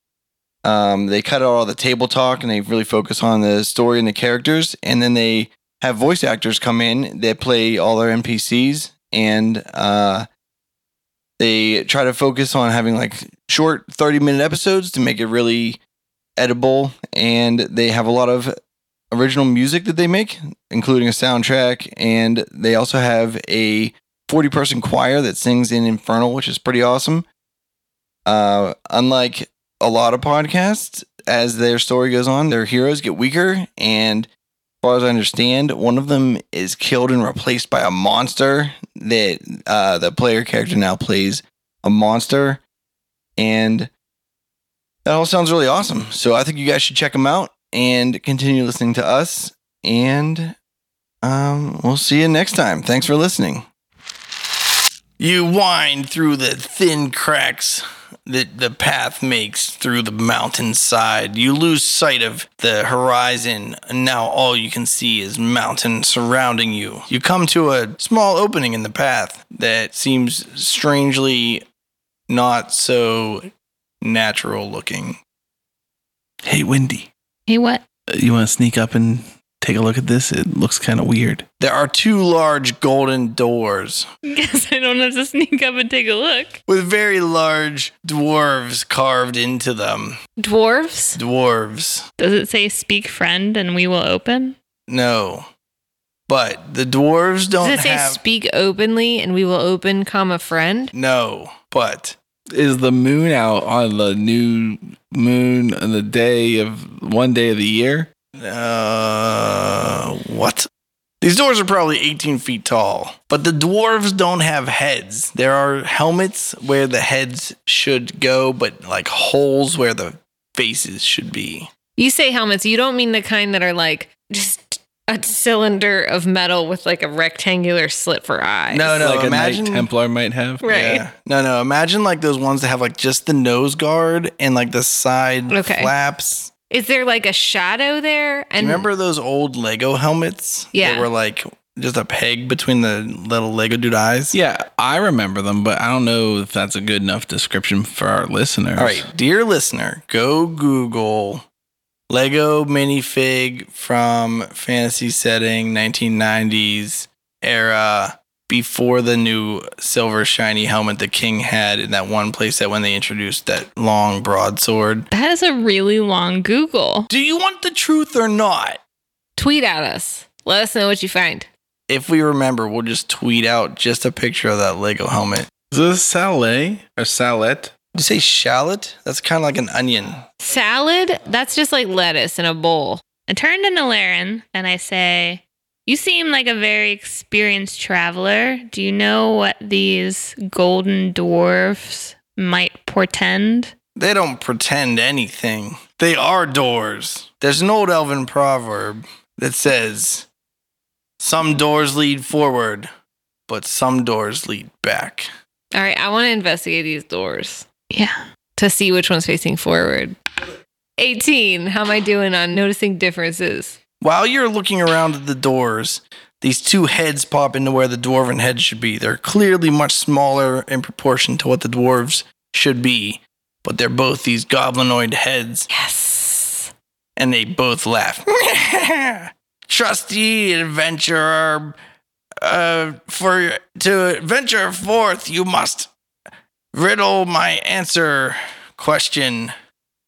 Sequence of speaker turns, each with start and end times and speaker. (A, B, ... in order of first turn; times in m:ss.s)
0:00.6-0:10.3 A
0:11.4-0:15.8 A
0:16.4-0:18.6 A
0:19.1-0:27.3 A
0:28.3-0:34.3 A
0:34.8-0:42.6 A
0:43.4-0:43.9 A
0:45.0-0:50.6 A
0:51.2-0:53.7 A
0:55.2-1:11.6 A
1:12.3-1:13.5 A
1:14.0-1:15.2 A
1:16.4-1:17.1 B
1:17.5-1:17.8 C
1:18.1-1:21.4 B
1:21.6-1:24.1 A
1:24.2-1:26.6 C
1:26.7-1:30.2 A
1:30.4-1:31.2 D
1:31.2-1:32.1 A
1:32.2-1:34.6 C
1:34.9-1:35.5 A
1:36.3-1:38.2 A
1:37.6-1:40.9 D
1:40.9-1:42.2 A
1:42.5-1:48.1 B
1:48.4-1:50.7 A
1:51.2-2:01.7 A
2:02.0-2:09.0 D
2:08.7-2:09.9 A
2:09.0-2:11.0 B
2:10.6-2:11.0 D
2:10.7-2:16.5 A
2:15.5-2:15.9 D
2:16.7-2:18.9 D
2:18.6-2:24.4 A
2:20.7-2:21.1 D
2:24.3-2:29.0 B
2:28.8-2:31.4 A
2:32.1-2:45.1 A
2:45.1-2:47.1 C
2:47.1-2:48.8 A
2:49.4-2:51.5 D
2:51.9-2:55.5 A
2:55.7-2:57.7 B
2:57.9-3:00.3 A
3:00.4-3:03.0 D
3:03.3-3:13.7 C
3:14.0-3:20.3 A
3:21.2-3:22.9 A
3:23.5-3:25.3 A
3:25.7-3:27.7 D
3:27.9-3:28.2 C
3:28.6-3:30.2 D
3:31.0-3:33.8 D
3:34.0-3:45.7 A
3:45.7-3:46.7 D
3:47.2-3:51.8 A
3:52.4-3:55.9 A
3:56.7-3:59.5 A